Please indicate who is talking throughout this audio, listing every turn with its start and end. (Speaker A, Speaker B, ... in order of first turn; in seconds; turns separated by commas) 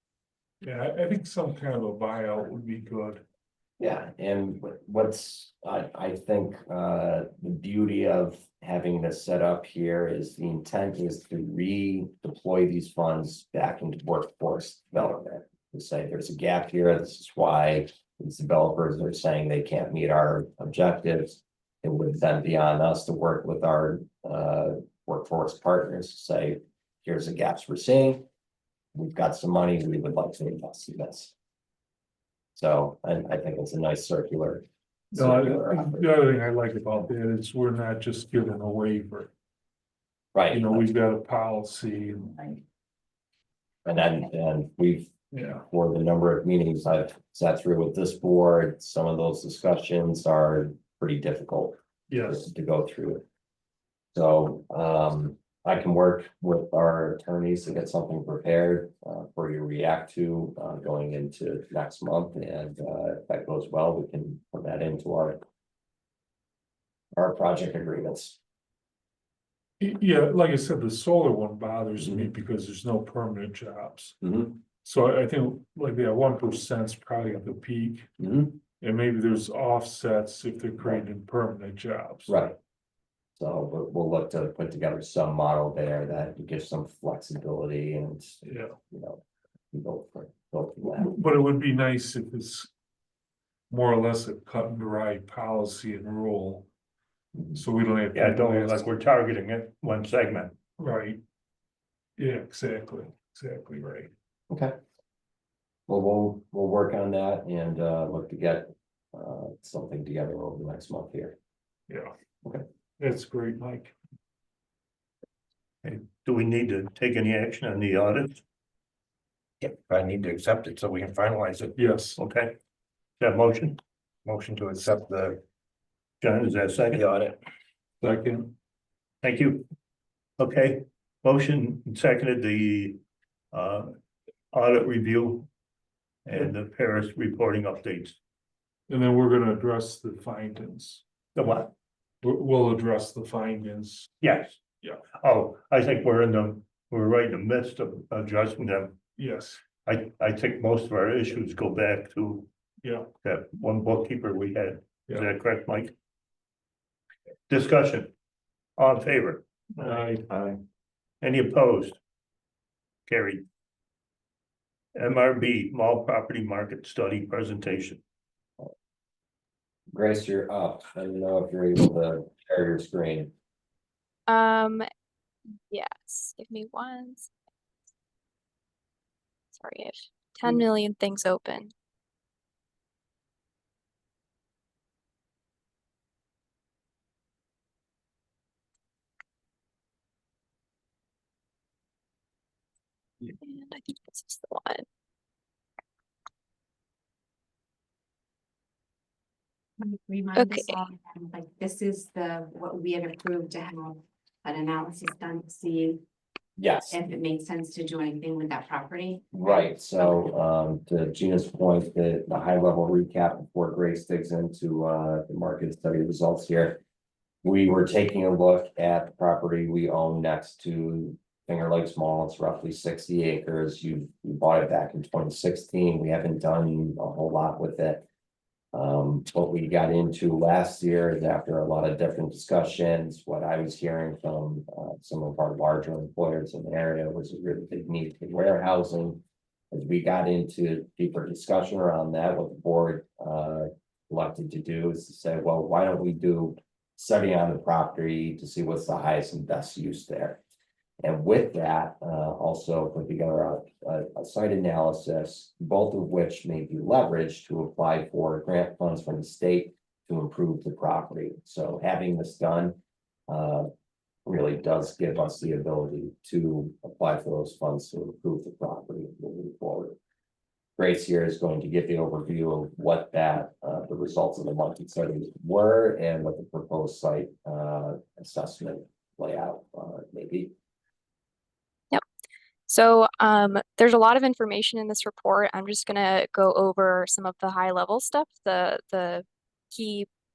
Speaker A: 0.6-3.2, Speaker B: 3.8-28.3, Speaker B: 28.9-31.3, Speaker B: 32.6-36.0, Speaker A: 35.1-39.3, Speaker B: 40.3-40.9, Speaker A: 40.5-42.6, Speaker B: 43.9-53.2, Speaker A: 45.3-45.6, Speaker A: 52.1-52.4, Speaker B: 54.1-65.4, Speaker B: 67.2-68.4, Speaker A: 69.8-74.2, Speaker B: 72.0-72.3, Speaker B: 74.2-74.6, Speaker A: 74.8-78.1, Speaker B: 78.2-78.6, Speaker A: 78.8-82.4, Speaker B: 82.3-82.6, Speaker B: 83.4-91.1, Speaker A: 88.4-88.8, Speaker A: 90.8-92.7, Speaker A: 93.7-96.7, Speaker A: 97.5-98.9, Speaker C: 98.1-100.6, Speaker A: 100.8-101.2, Speaker A: 102.2-104.1, Speaker B: 104.5-104.8, Speaker B: 105.9-111.4, Speaker A: 111.9-112.1, Speaker A: 113.0-114.0, Speaker C: 115.8-118.4, Speaker D: 119.6-121.8, Speaker A: 121.8-122.2, Speaker C: 122.2-122.5, Speaker C: 123.2-123.8, Speaker D: 124.2-125.4, Speaker C: 126.2-127.0, Speaker D: 126.8-127.4, Speaker A: 128.0-128.5, Speaker C: 129.2-129.6, Speaker C: 130.4-133.0, Speaker C: 133.5-133.9, Speaker C: 134.5-135.5, Speaker C: 136.3-138.2, Speaker A: 138.9-141.0, Speaker C: 141.4-141.7, Speaker A: 142.2-144.1, Speaker C: 144.2-144.6, Speaker C: 145.2-149.0, Speaker A: 149.2-149.6, Speaker C: 149.9-152.5, Speaker A: 152.8-153.1, Speaker C: 153.2-155.9, Speaker C: 157.5-158.1, Speaker C: 158.8-159.9, Speaker A: 159.8-160.2, Speaker D: 160.3-160.6, Speaker C: 161.2-162.0, Speaker C: 163.1-163.4, Speaker C: 164.9-168.0, Speaker B: 169.9-173.3, Speaker E: 174.3-174.9, Speaker E: 175.7-177.3, Speaker E: 179.6-181.7, Speaker E: 193.4-194.8, Speaker F: 199.8-206.0, Speaker E: 200.4-200.8, Speaker B: 206.6-207.0, Speaker F: 206.9-209.7, Speaker B: 209.3-216.8, Speaker B: 217.4-228.0, Speaker B: 228.7-250.4, Speaker B: 251.0-262.8, Speaker B: 263.3-263.7, Speaker B: 264.3-270.0, Speaker B: 270.8-280.5, Speaker E: 282.7-290.1